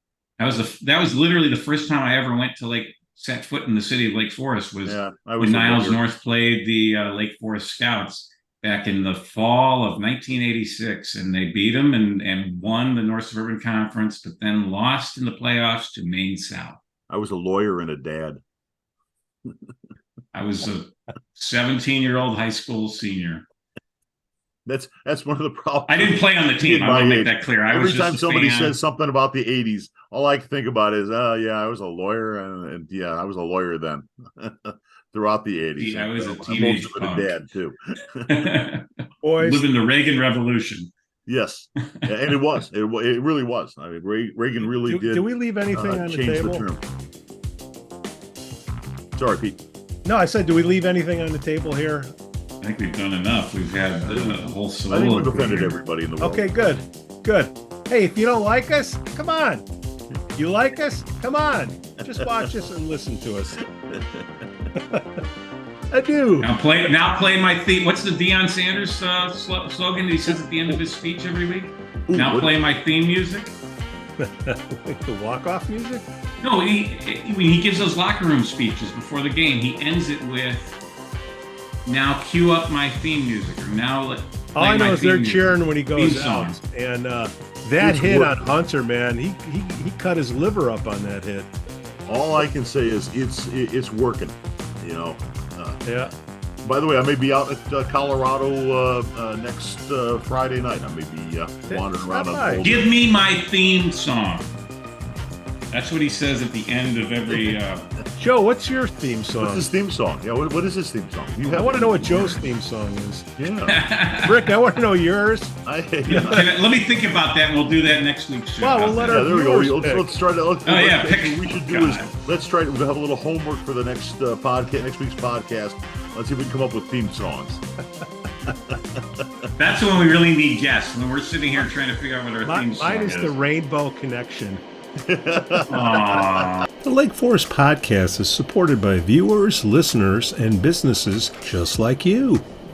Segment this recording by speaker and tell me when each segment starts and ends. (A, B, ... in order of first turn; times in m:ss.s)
0:00.4-0:16.8 A
0:04.8-0:06.0 B
0:17.1-0:18.4 B
0:20.3-0:23.4 A
0:24.7-0:38.4 B
0:25.9-0:28.8 A
0:35.8-0:37.4 A
0:38.3-0:40.9 A
0:39.2-0:39.7 C
0:41.3-0:46.8 B
0:44.7-0:46.7 C
0:49.2-0:49.6 B
0:50.0-0:52.1 C
0:52.6-0:55.8 A
0:54.0-0:56.6 B
0:56.2-0:59.7 C
1:00.4-1:03.6 C
1:03.9-1:04.2 B
1:04.8-1:05.2 C
1:05.9-1:06.5 C
1:06.4-1:13.6 A
1:12.1-1:12.5 B
1:14.2-1:16.0 C
1:16.4-1:20.8 A
1:21.9-1:26.6 A
1:24.6-1:31.5 C
1:27.8-1:28.4 B
1:32.1-1:35.8 B
1:35.8-1:36.1 C
1:36.6-1:42.9 B
1:41.7-1:42.6 C
1:42.6-1:44.6 A
1:45.7-1:47.9 A
1:48.2-1:49.7 C
1:49.4-1:52.4 B
1:51.5-1:53.3 C
1:53.4-1:53.8 B
1:53.7-1:54.4 A
1:54.2-1:55.5 C
1:55.7-1:56.5 B
1:56.1-1:56.4 C
1:56.1-1:59.3 A
1:58.6-2:00.2 C
1:59.0-2:07.6 B
2:00.6-2:02.1 A
2:09.6-2:13.4 A
2:12.4-2:14.6 C
2:15.1-2:16.5 B
2:15.7-2:16.7 A
2:16.8-2:22.4 C